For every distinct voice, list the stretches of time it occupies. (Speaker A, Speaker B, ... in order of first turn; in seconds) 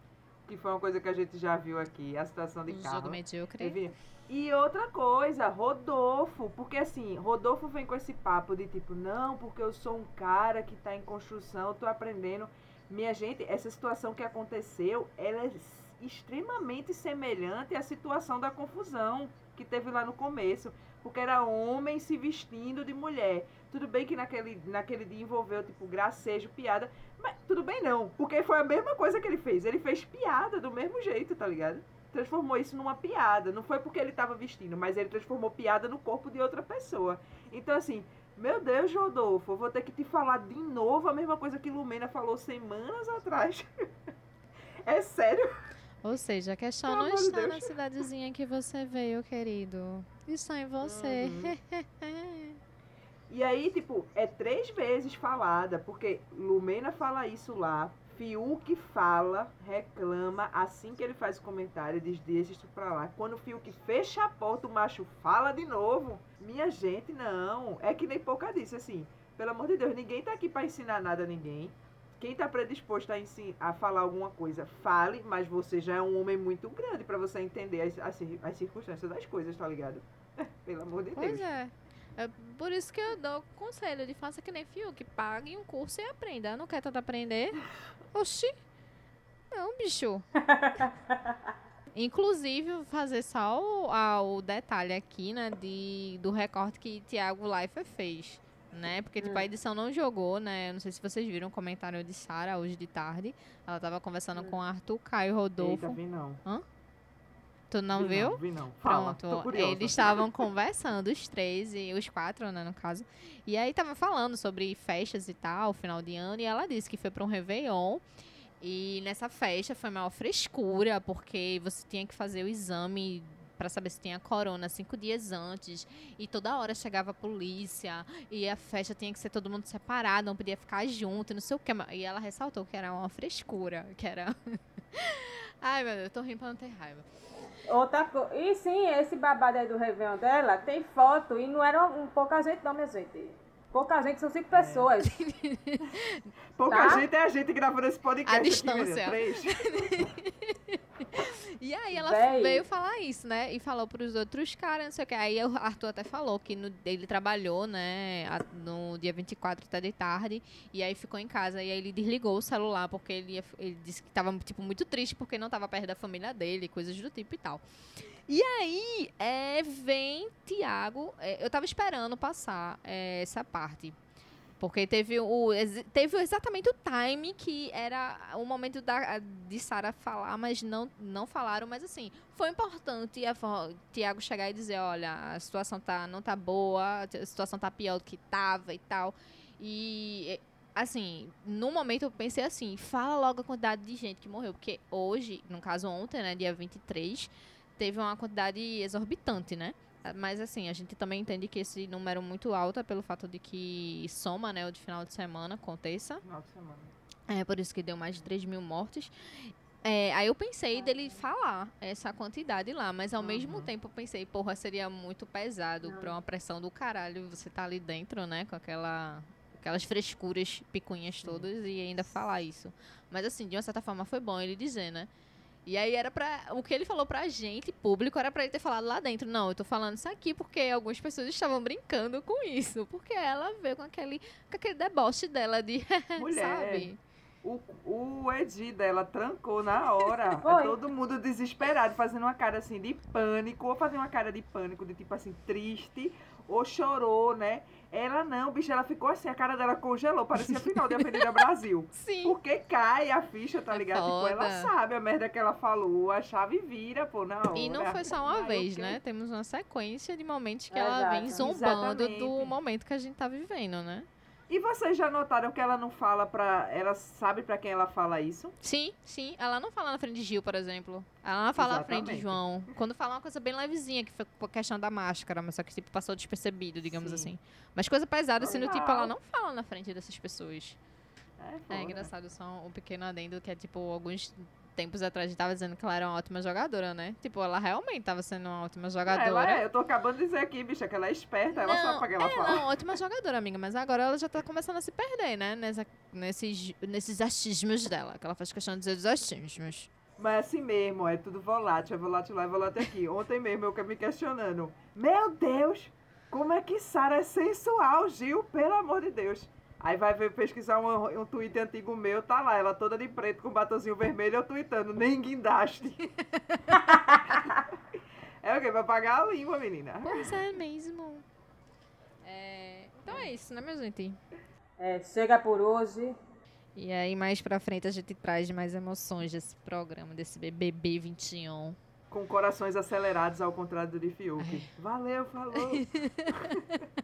Speaker A: 0.5-43.8, 44.8-45.5, 46.9-47.7, 50.8-51.5, 53.3-81.5, 105.6-106.4, 107.9-110.2, 144.5-144.9, 146.6-150.1, 206.2-206.9, 213.2-213.7, 236.2-236.9, 237.4-259.0, 261.4-262.5, 264.5-268.5, 271.5-272.4, 276.9-277.3, 278.4-279.1, 281.4-282.1, 289.1-292.7, 300.2-316.1, 317.2-317.8, 318.4-320.3, 332.1-336.9
Speaker B: 2.7-3.8, 46.0-52.6, 81.1-87.6, 88.1-88.5, 89.5-90.2, 91.9-106.6, 107.7-118.0, 118.6-137.1, 145.0-146.3, 148.2-167.6, 168.3-173.9, 174.6-206.2, 207.3-225.1, 225.7-237.0, 250.4-251.3, 251.9-252.4, 253.7-254.7, 257.5-264.1, 268.6-280.8, 281.7-289.6, 291.5-299.9, 320.0-321.2, 322.2-324.2, 326.8-331.8, 334.4-334.7, 335.5-336.6
Speaker C: 90.5-90.9, 99.2-99.5, 137.7-145.2, 146.7-147.1, 151.9-152.7, 210.7-211.2, 215.8-216.2, 240.4-240.8, 260.7-261.4, 324.8-326.1